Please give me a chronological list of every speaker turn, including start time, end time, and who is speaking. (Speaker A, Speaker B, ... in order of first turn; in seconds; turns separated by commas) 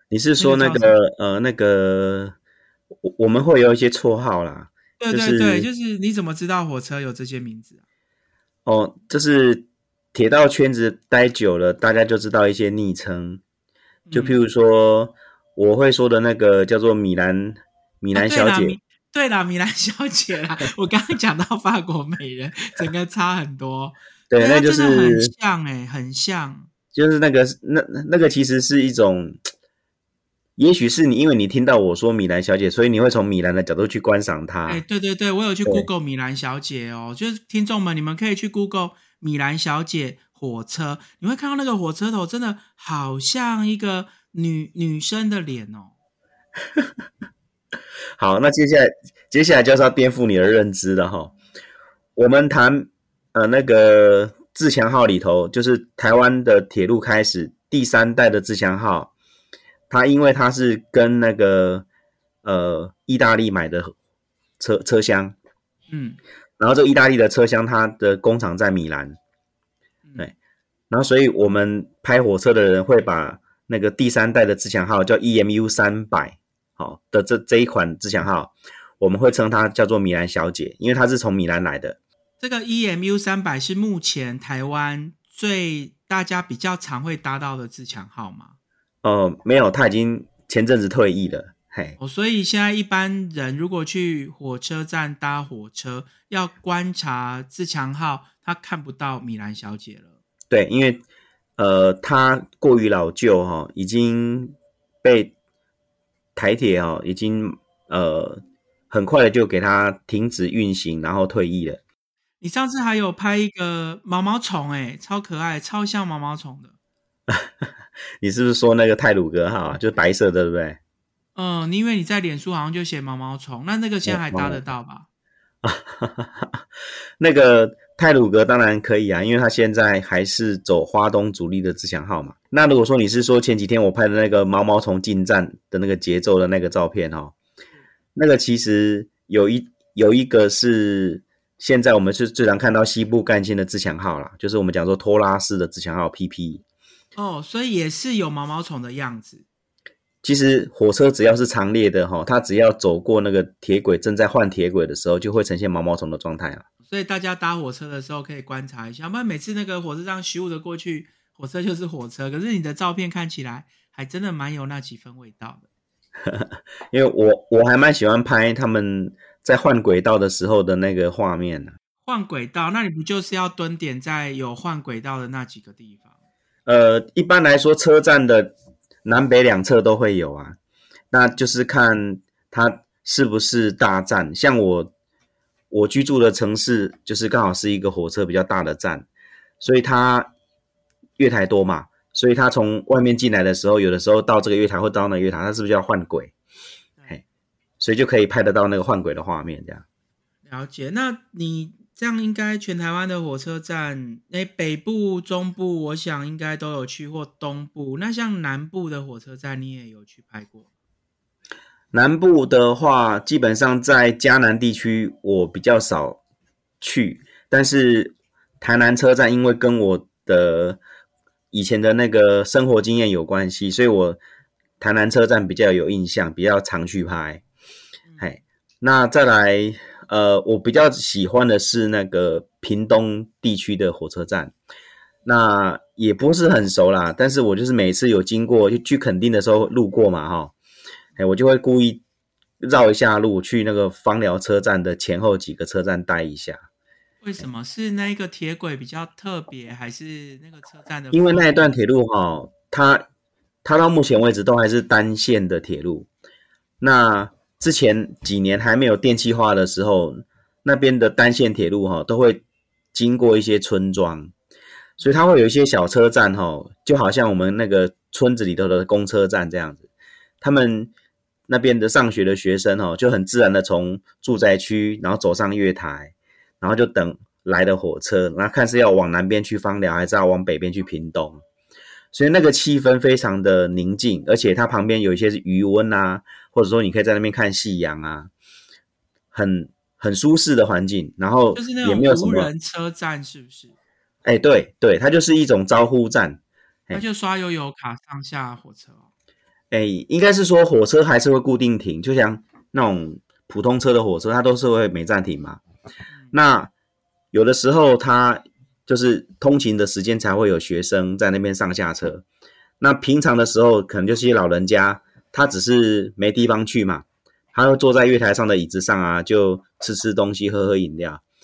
Speaker A: 0.1-2.4, Speaker B: 0.4-0.9, Speaker A: 3.0-5.7, Speaker B: 5.0-7.8, Speaker A: 8.6-13.4, Speaker B: 14.1-14.4, Speaker A: 14.1-18.8, Speaker B: 18.1-26.7, Speaker A: 24.3-25.3, Speaker A: 26.9-29.4, Speaker A: 30.6-34.8, Speaker B: 34.6-45.9, Speaker A: 48.2-51.3, Speaker A: 52.1-59.1, Speaker A: 59.9-61.9, Speaker A: 62.4-63.9, Speaker A: 64.6-65.3, Speaker B: 65.9-66.2, Speaker A: 66.6-69.2, Speaker B: 70.0-70.3, Speaker A: 70.9-82.0, Speaker B: 82.4-88.5, Speaker A: 89.0-92.0, Speaker B: 92.0-100.2, Speaker A: 100.5-101.0, Speaker A: 101.6-105.3, Speaker A: 106.3-111.8, Speaker B: 112.4-116.7, Speaker A: 117.3-117.6, Speaker A: 118.2-120.8, Speaker B: 121.3-125.0, Speaker A: 124.0-124.6, Speaker A: 125.6-126.6, Speaker A: 127.2-137.3, Speaker A: 138.2-146.6, Speaker B: 147.1-149.4, Speaker A: 150.2-156.6, Speaker B: 156.9-165.6, Speaker A: 166.2-171.7, Speaker B: 172.0-176.1, Speaker A: 176.7-178.5, Speaker A: 179.0-180.6, Speaker A: 181.1-184.9, Speaker A: 185.7-189.1, Speaker A: 189.6-190.3, Speaker A: 191.2-196.3, Speaker A: 197.8-199.8, Speaker B: 200.4-210.7, Speaker A: 211.9-216.2, Speaker A: 216.8-220.8, Speaker A: 221.5-224.2, Speaker A: 224.8-227.4, Speaker B: 228.1-228.3, Speaker A: 228.2-234.5, Speaker A: 235.2-240.5, Speaker A: 241.2-242.0, Speaker A: 242.6-246.7, Speaker B: 247.2-251.8, Speaker A: 251.1-253.0, Speaker A: 253.6-256.1, Speaker A: 256.8-262.4, Speaker A: 262.9-264.3, Speaker A: 265.0-269.9, Speaker A: 270.4-270.9, Speaker A: 271.5-281.4, Speaker A: 282.1-288.3, Speaker A: 289.3-292.5, Speaker B: 291.5-293.7, Speaker A: 294.2-297.0, Speaker B: 296.9-299.1, Speaker A: 299.7-305.6, Speaker A: 306.3-306.7, Speaker A: 307.3-312.2, Speaker A: 312.8-321.2